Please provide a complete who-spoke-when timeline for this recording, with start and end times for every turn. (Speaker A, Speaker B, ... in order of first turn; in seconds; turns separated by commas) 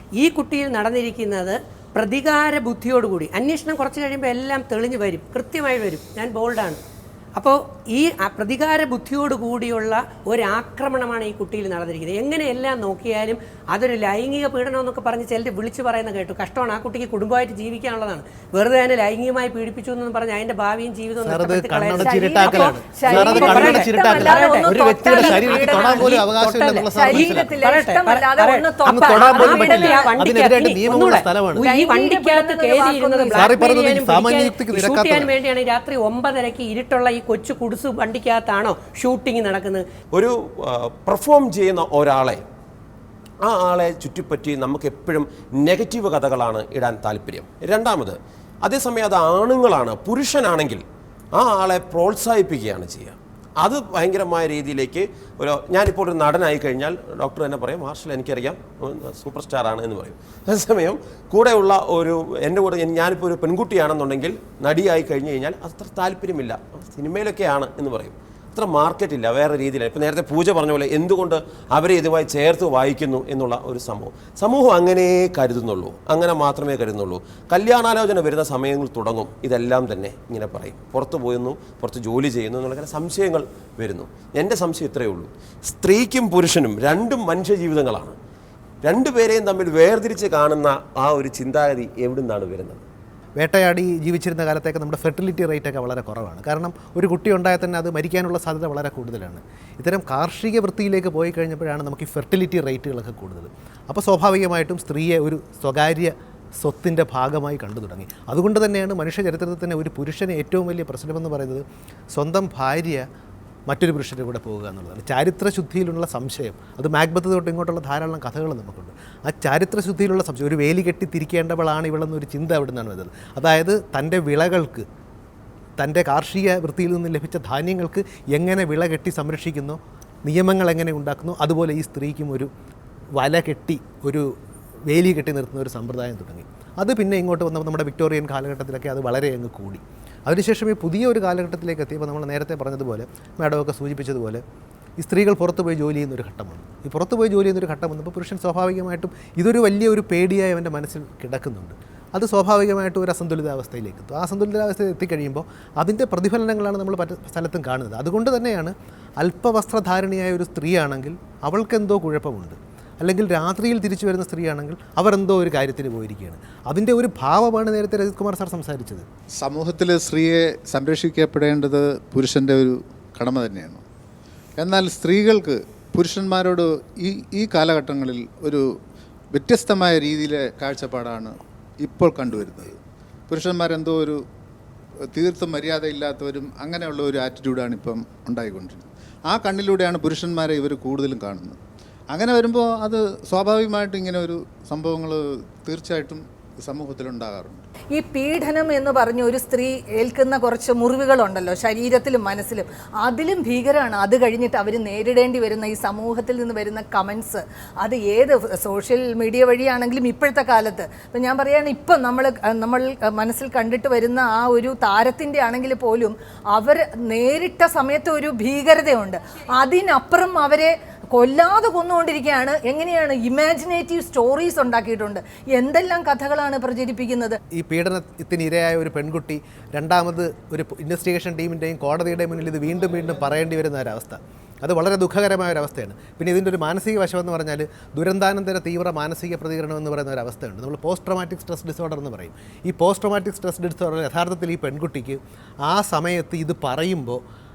Speaker A: 0.2-6.8, Speaker A: 7.3-39.8, Speaker B: 21.2-27.6, Speaker C: 22.0-30.2, Speaker B: 28.9-31.7, Speaker C: 31.6-33.6, Speaker B: 33.3-35.3, Speaker D: 40.1-42.4, Speaker D: 43.4-50.8, Speaker D: 51.3-88.2, Speaker D: 88.8-92.8, Speaker B: 93.4-113.0, Speaker B: 113.7-124.8, Speaker B: 125.8-132.5, Speaker B: 133.2-134.3, Speaker B: 134.9-144.4, Speaker B: 145.0-169.0, Speaker E: 169.4-173.8, Speaker E: 174.6-178.6, Speaker E: 179.3-182.8, Speaker E: 183.3-184.2, Speaker E: 185.1-191.6, Speaker E: 192.1-197.6, Speaker C: 197.9-227.4, Speaker B: 227.5-247.2